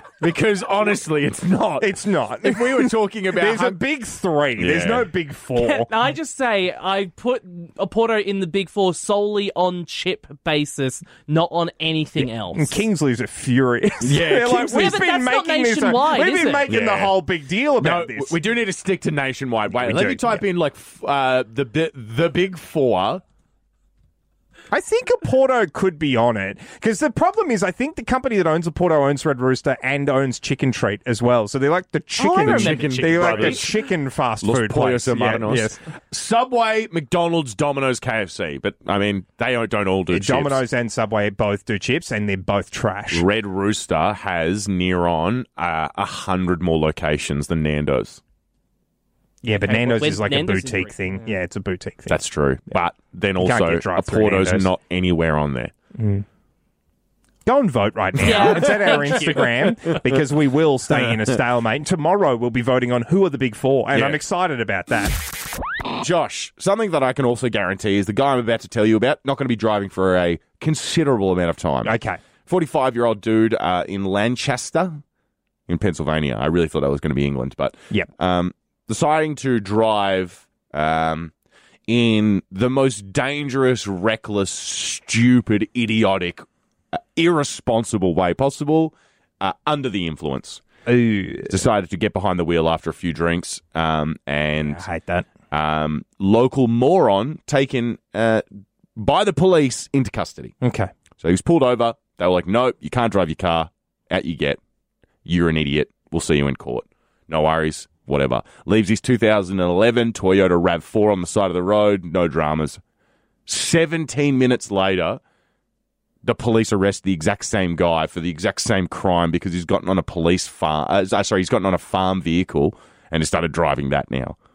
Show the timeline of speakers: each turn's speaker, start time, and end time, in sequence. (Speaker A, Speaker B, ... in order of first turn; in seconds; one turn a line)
Speaker A: 0.2-3.8
Speaker B: 1.8-5.9
Speaker A: 4.6-5.1
Speaker C: 5.6-12.8
Speaker B: 12.5-18.3
Speaker A: 14.0-15.0
Speaker C: 14.7-16.7
Speaker A: 16.7-17.2
Speaker A: 17.8-23.2
Speaker B: 19.7-20.4
Speaker B: 24.7-35.8
Speaker C: 32.2-33.6
Speaker A: 32.3-33.8
Speaker A: 34.4-40.6
Speaker B: 40.1-43.2
Speaker A: 43.1-48.2
Speaker B: 49.4-52.2
Speaker C: 49.7-51.1
Speaker A: 52.1-55.7
Speaker B: 53.4-54.7
Speaker B: 56.0-56.2
Speaker B: 57.5-65.2
Speaker C: 58.2-59.9
Speaker A: 58.2-59.4
Speaker A: 63.9-64.2
Speaker A: 66.0-71.9
Speaker B: 71.8-72.2
Speaker A: 72.5-75.0
Speaker A: 75.7-81.3
Speaker A: 81.9-90.6
Speaker B: 90.9-91.6
Speaker A: 91.5-94.8
Speaker B: 94.7-95.3
Speaker A: 95.5-100.5
Speaker B: 100.6-100.9
Speaker A: 101.2-104.6
Speaker A: 105.2-112.8
Speaker A: 113.5-115.2
Speaker A: 116.2-124.4